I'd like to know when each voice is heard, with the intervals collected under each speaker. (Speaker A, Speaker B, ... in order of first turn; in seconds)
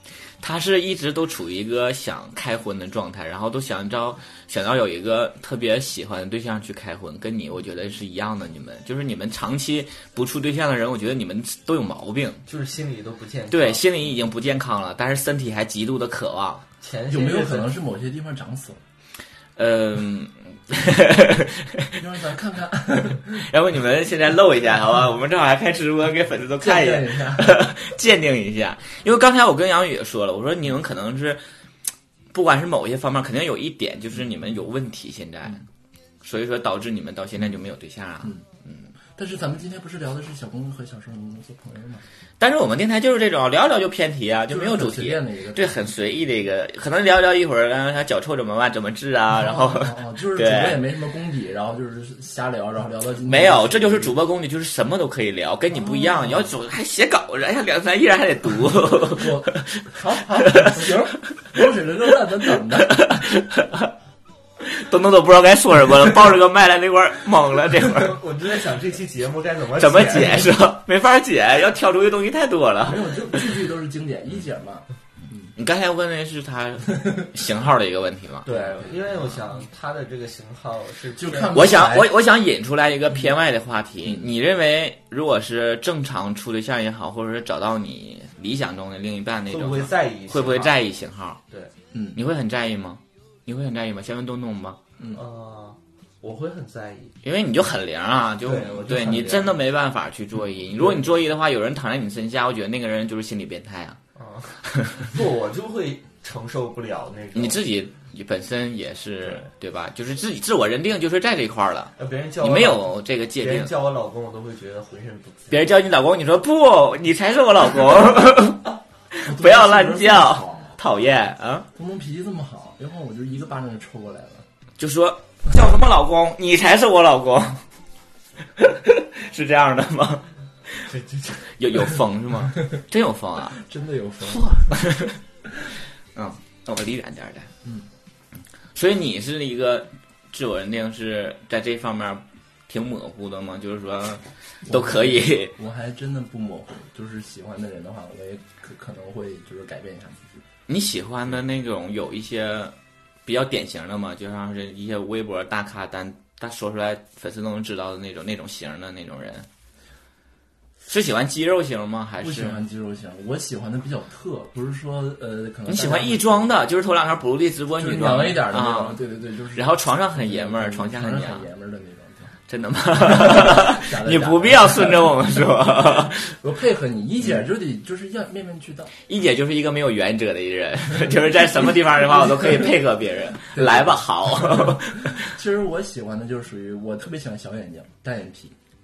Speaker A: 0.4-12.4, 13.5-16.6, 19.6-22.0, 23.2-31.4, 32.3-35.6, 36.2-38.9, 42.4-50.8, 53.2-61.0, 62.8-63.9, 64.6-68.2, 69.8-73.5, 75.6-78.5, 81.5-91.4, 92.1-94.8, 97.2-104.0, 107.3-113.7, 115.5-121.7, 124.8-127.6, 128.6-130.9, 131.5-133.6, 134.4-135.2, 136.1-137.5, 138.8-145.5, 150.7-152.7, 153.2-159.5, 160.8-162.6, 165.7-169.0, 169.5-171.5, 172.5-176.3, 179.1-185.2
Speaker B: 12.5-13.8, 16.8-17.7, 67.9-70.5, 78.5-81.7, 89.5-90.8, 95.1-97.1, 98.4-99.5, 104.2-107.6, 112.0-115.7, 130.9-131.4
Speaker C: 17.1-18.8, 21.9-23.4, 26.6-27.6, 39.1-42.0, 44.5-45.9, 49.3-54.1, 55.7-56.5, 59.0-63.2, 72.8-75.5, 81.2-82.1, 119.2-120.8, 121.8-124.5, 133.6-134.7, 144.7-150.4, 162.2-166.5, 167.8-172.3, 173.1-175.1, 176.3-178.9, 182.2-182.6, 183.5-188.5